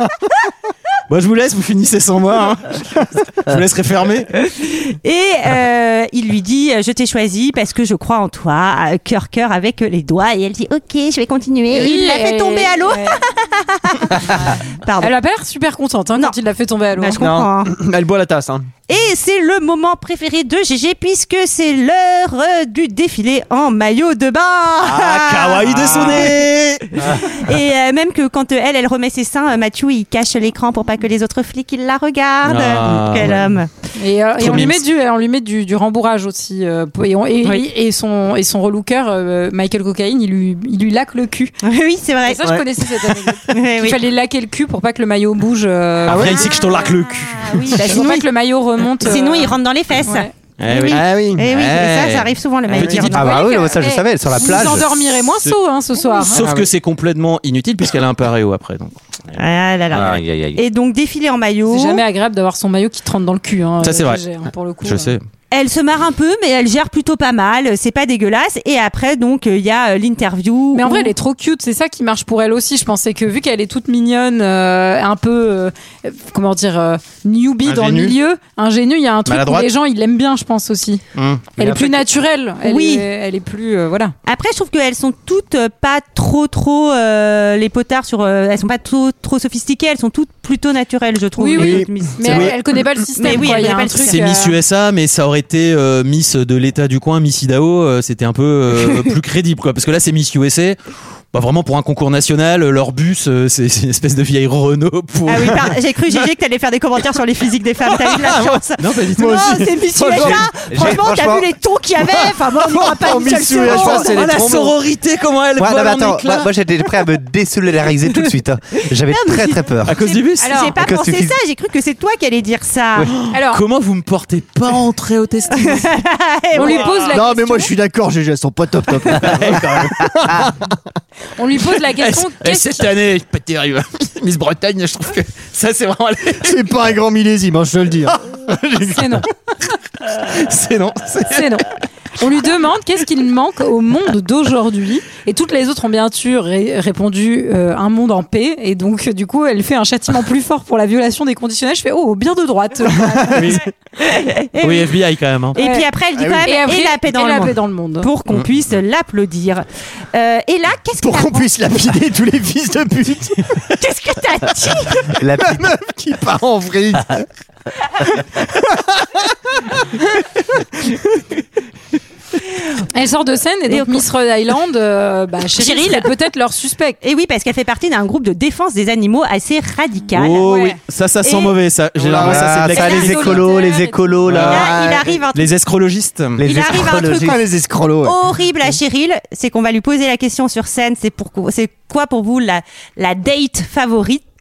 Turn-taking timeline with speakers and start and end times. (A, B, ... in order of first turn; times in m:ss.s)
0:01.1-0:04.3 A
0:04.4-0:15.1 B
0:11.7-0:13.2 C
0:14.2-0:17.2 C
0:17.0-0:17.7 B
0:17.2-0:18.7 D
0:18.9-0:26.3 B
0:24.8-0:27.1 A
0:27.1-0:33.7 B
0:32.4-0:33.6 A
0:34.0-0:41.6 C
0:34.4-0:34.8 A
0:41.6-0:42.4 B
0:42.3-0:46.9 C
0:42.4-0:43.4 D
0:43.5-0:44.0 B
0:46.0-0:47.8 A
0:46.1-0:46.5 D
0:46.4-0:48.3 B
0:47.7-0:50.3 C
0:49.0-0:53.7 B
0:50.6-0:53.3 A
0:50.9-0:51.5 D
0:52.8-0:53.0 D
0:53.0-0:54.9 E
0:53.2-0:56.4 C
0:55.4-0:59.0 A
0:56.4-0:56.7 D
0:59.4-1:02.0 B
0:59.9-1:00.6 E
1:01.7-1:05.2 C
1:03.8-1:04.2 A
1:04.8-1:05.2 A
1:05.5-1:11.1 B
1:10.7-1:21.0 C
1:17.6-1:18.2 A
1:19.3-1:19.7 A
1:21.2-1:21.5 A
1:21.6-1:22.0 E
1:21.6-1:24.2 C
1:22.6-1:23.1 B
1:24.3-1:32.5 B
1:31.4-1:34.6 C
1:31.6-1:32.6 D
1:32.3-1:32.5 A
1:33.2-1:34.3 B
1:34.0-1:40.8 A
1:41.3-1:45.7 A
1:45.3-1:54.3 B
1:48.8-1:49.7 A
1:49.2-1:50.9 D
1:50.2-1:51.5 E
1:52.6-1:54.8 D
1:53.6-1:56.5 A
1:55.6-2:00.0 E
1:58.8-2:03.1 B
1:59.8-2:00.5 A
2:00.4-2:00.8 C
2:00.8-2:01.4 E
2:03.1-2:05.9 A
2:03.3-2:03.6 C
2:05.6-2:07.0 B
2:06.6-2:07.7 C
2:06.6-2:07.1 A
2:07.1-2:10.7 D
2:09.1-2:10.4 A
2:11.4-2:12.9 C
2:11.7-2:16.7 A
2:16.4-2:18.2 D
2:18.2-2:19.0 A
2:18.8-2:19.3 C
2:20.0-2:21.6 A
2:21.3-2:21.7 C
2:22.2-2:33.7 C
2:33.0-2:33.6 D
2:33.3-2:33.6 A
2:34.0-2:34.9 B
2:34.6-2:35.6 A
2:35.5-2:41.5 B
2:35.6-2:35.9 C
2:36.2-2:36.4 D
2:36.4-2:38.1 C
2:41.0-2:43.6 D
2:43.8-2:45.1 B
2:45.2-2:45.7 E
2:45.4-2:47.2 D
2:48.7-2:49.0 D
2:52.9-2:57.0 C
2:53.7-2:54.0 B
2:55.6-2:56.1 B
2:57.0-3:00.7 B
3:00.2-3:03.5 A
3:00.5-3:00.8 C
3:01.2-3:01.5 B
3:02.0-3:02.6 D
3:02.1-3:04.7 E
3:02.7-3:04.2 C
3:02.7-3:03.1 B
3:04.3-3:04.7 A
3:04.3-3:05.2 D
3:04.5-3:05.5 B
3:05.3-3:06.4 A
3:06.4-3:07.5 E
3:06.4-3:07.4 B
3:07.1-3:08.2 D
3:08.0-3:14.2 B